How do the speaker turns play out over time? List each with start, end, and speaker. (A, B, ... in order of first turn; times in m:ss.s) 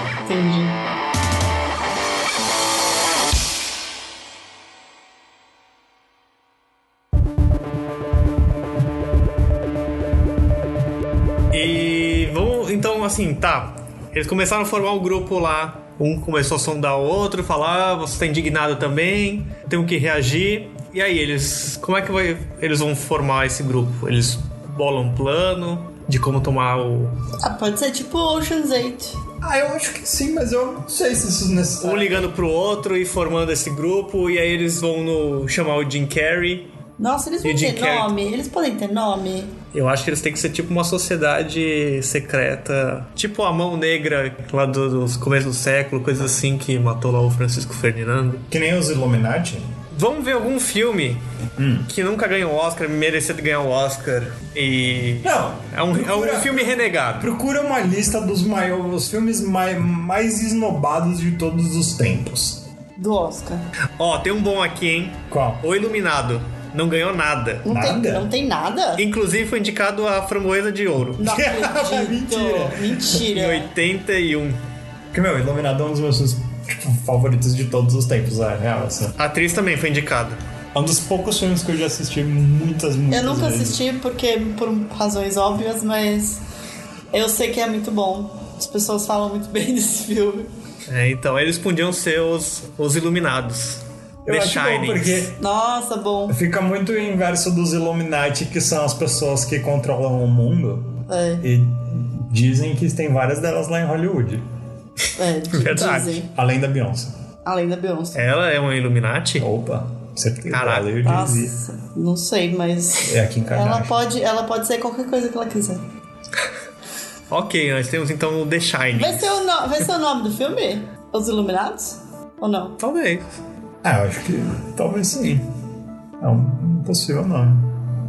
0:00.2-0:00.8 A
0:11.5-0:27.1 B
0:27.4-0:29.2 A
0:29.4-0:32.3 C
0:31.8-0:36.7 B
0:37.0-0:39.6 A
0:37.4-0:38.1 B
0:39.7-0:48.4 B
0:48.5-0:49.7 C
0:49.9-0:51.2 B
0:51.6-0:51.9 C
0:51.9-0:57.3 B
0:55.2-1:02.6 C
1:03.0-1:03.6 A
1:04.0-1:07.7 B
1:05.3-1:05.6 C
1:07.6-1:09.0 A
1:07.7-1:08.3 C
1:09.0-1:11.2 B
1:11.2-1:13.7 A
1:11.2-1:13.0 C
1:13.1-1:14.6 B
1:15.1-1:19.1 C
1:19.2-1:20.4 B
1:20.7-1:23.8 C
1:23.1-1:26.4 A
1:27.1-1:30.5 A
1:30.9-1:35.3 B
1:34.2-1:35.4 C
1:35.4-1:36.4 A
1:36.3-1:44.4 C
1:41.1-1:41.4 A
1:45.2-1:46.3 A
1:45.5-1:46.2 B
1:46.0-1:47.1 C
1:47.4-1:48.2 A
1:48.1-1:49.5 B
1:49.4-1:51.5 C
1:50.5-1:50.9 B
1:51.0-1:55.8 A
1:53.0-1:54.0 C
1:57.3-1:59.4 B
1:58.9-2:02.8 A
2:02.8-2:03.3 B
2:03.8-2:05.4 C
2:06.2-2:07.8 C